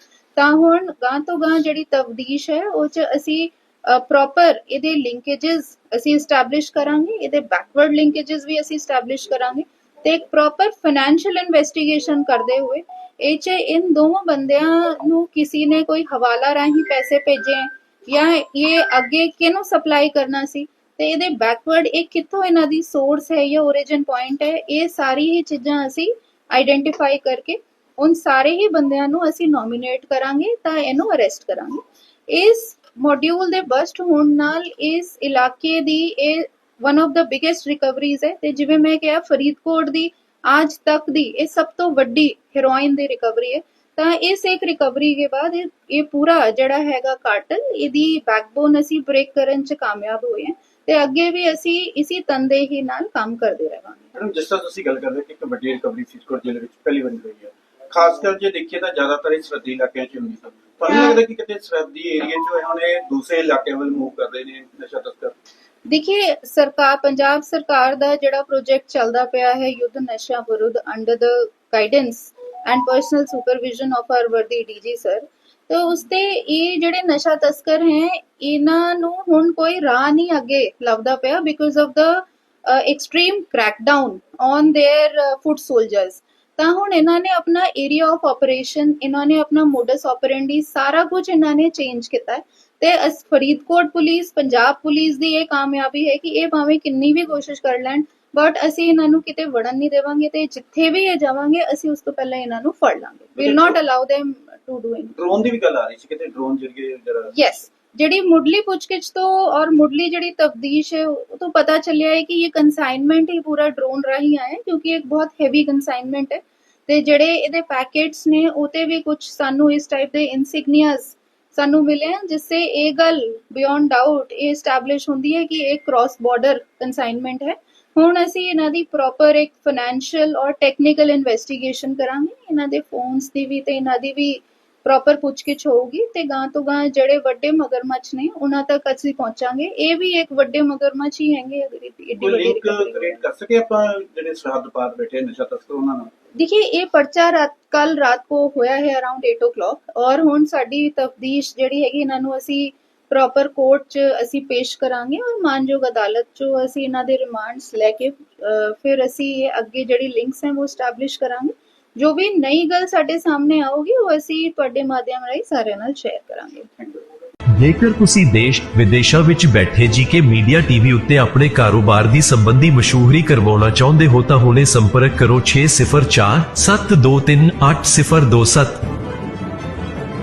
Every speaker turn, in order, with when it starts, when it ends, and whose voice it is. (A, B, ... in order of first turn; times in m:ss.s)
0:00.4-0:54.1 A
0:54.2-1:05.3 B
1:05.9-1:45.2 A
1:43.4-1:43.7 B
1:45.2-1:47.3 B
1:47.3-2:23.2 A
2:22.2-2:26.1 B
2:26.3-2:46.7 A
2:47.6-2:58.8 C